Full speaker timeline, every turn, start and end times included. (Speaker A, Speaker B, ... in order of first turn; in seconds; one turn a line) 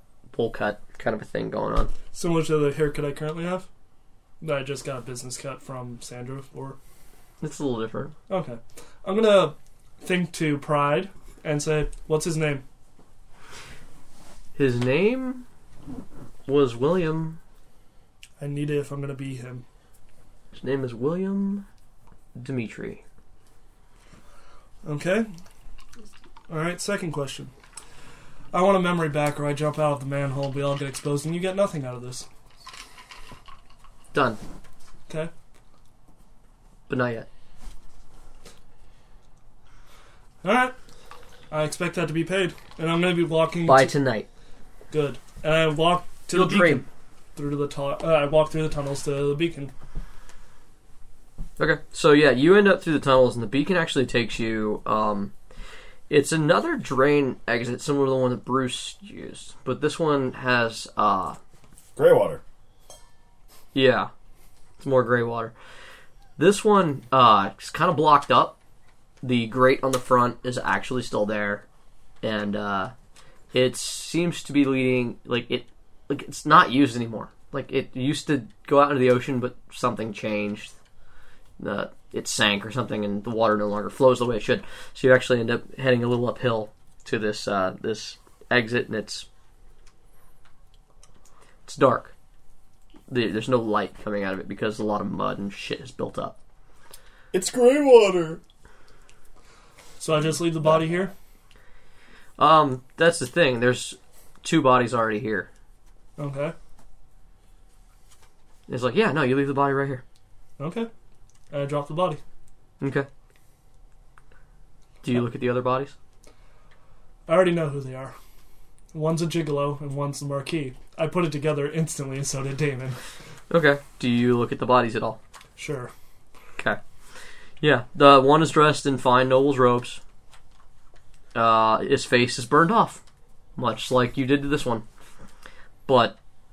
Speaker A: 0.3-1.9
Speaker B: 2.1-3.7
Speaker B: 4.4-6.8
Speaker A: 7.4-8.1
Speaker B: 8.3-12.6
Speaker A: 14.5-15.4
Speaker A: 16.4-17.4
Speaker B: 18.4-19.6
Speaker A: 20.5-21.6
Speaker A: 22.4-23.0
Speaker B: 24.8-25.3
Speaker B: 26.5-27.5
Speaker B: 28.5-32.3
Speaker A: 34.1-34.4
Speaker A: 36.9-37.3
Speaker B: 40.4-40.8
Speaker B: 41.5-43.9
Speaker A: 43.6-44.3
Speaker B: 44.9-49.7
Speaker A: 46.3-46.8
Speaker A: 51.6-55.3
Speaker A: 56.1-61.4
Speaker C: 62.0-62.4
Speaker A: 63.7-64.1
Speaker A: 64.8-65.5
Speaker A: 66.4-68.6
Speaker A: 69.2-71.6
Speaker A: 72.2-72.9
Speaker A: 73.5-80.7
Speaker A: 81.6-89.2
Speaker A: 91.7-92.1
Speaker A: 93.1-96.3
Speaker C: 97.3-98.4
Speaker B: 100.0-101.1
Speaker C: 100.6-101.1
Speaker A: 102.4-105.5
Speaker B: 106.2-106.5
Speaker A: 108.7-110.0
Speaker B: 110.6-110.9
Speaker B: 111.5-112.2
Speaker A: 112.8-113.1
Speaker A: 115.0-115.9
Speaker B: 117.3-118.2
Speaker B: 118.9-123.0
Speaker A: 123.5-125.2
Speaker B: 125.6-125.9
Speaker A: 127.6-130.0
Speaker A: 131.3-133.0
Speaker A: 133.6-134.8
Speaker A: 135.9-136.2